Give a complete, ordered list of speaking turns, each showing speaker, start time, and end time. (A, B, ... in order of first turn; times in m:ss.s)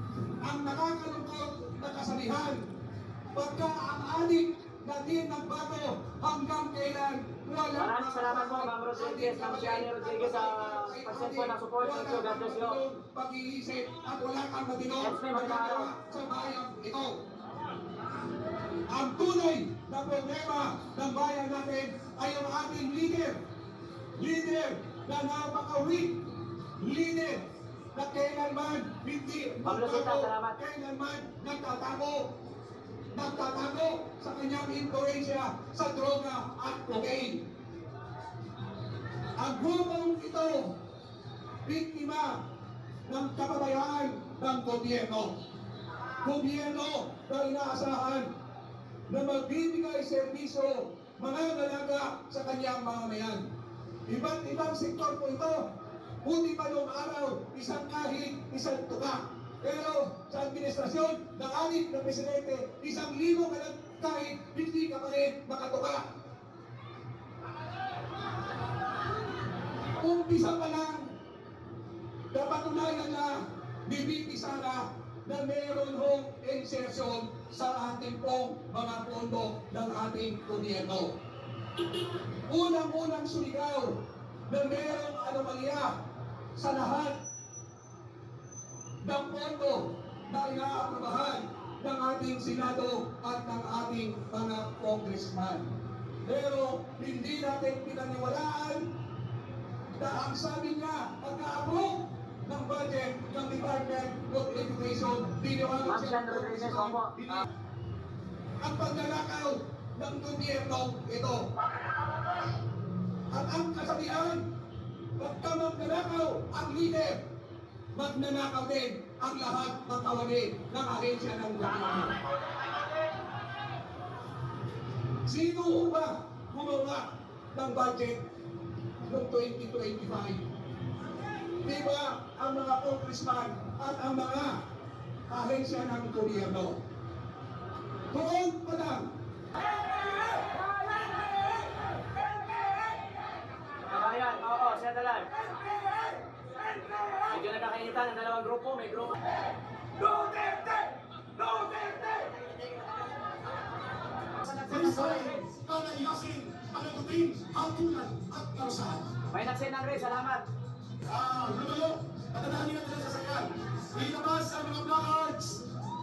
0:00.4-0:02.7 A
0:03.3-0:17.2 A
0:07.8-0:12.8 B
0:15.0-0:15.9 B
0:18.9-0:23.4 A
0:24.2-0:26.2 A
0:26.8-0:32.3 A
0:29.6-0:30.6 B
0:33.1-0:37.4 A
0:39.4-0:40.8 A
0:41.7-0:42.4 A
0:43.1-0:45.4 A
0:46.2-0:48.3 A
0:49.1-0:53.4 A
0:54.1-0:55.7 A
0:56.2-1:06.0 A
1:10.0-1:11.1 A
1:12.3-1:21.2 A
1:22.5-1:24.0 A
1:24.5-1:25.9 A
1:26.6-1:27.2 A
1:29.0-1:35.7 A
1:36.2-1:38.9 A
1:40.0-1:47.4 A
1:45.8-1:47.4 B
1:48.6-1:51.4 A
1:53.3-1:54.4 A
1:55.2-1:57.2 A
1:58.0-2:02.2 A
2:05.3-2:08.2 A
2:09.1-2:10.4 A
2:11.6-2:14.6 A
2:15.3-2:16.8 A
2:18.1-2:19.1 A
2:23.9-2:25.5 B
2:26.9-2:29.3 B
2:30.0-2:32.7 B
2:34.4-2:35.4 B
2:34.6-2:39.1 C
2:39.3-2:40.5 B
2:41.0-2:45.6 C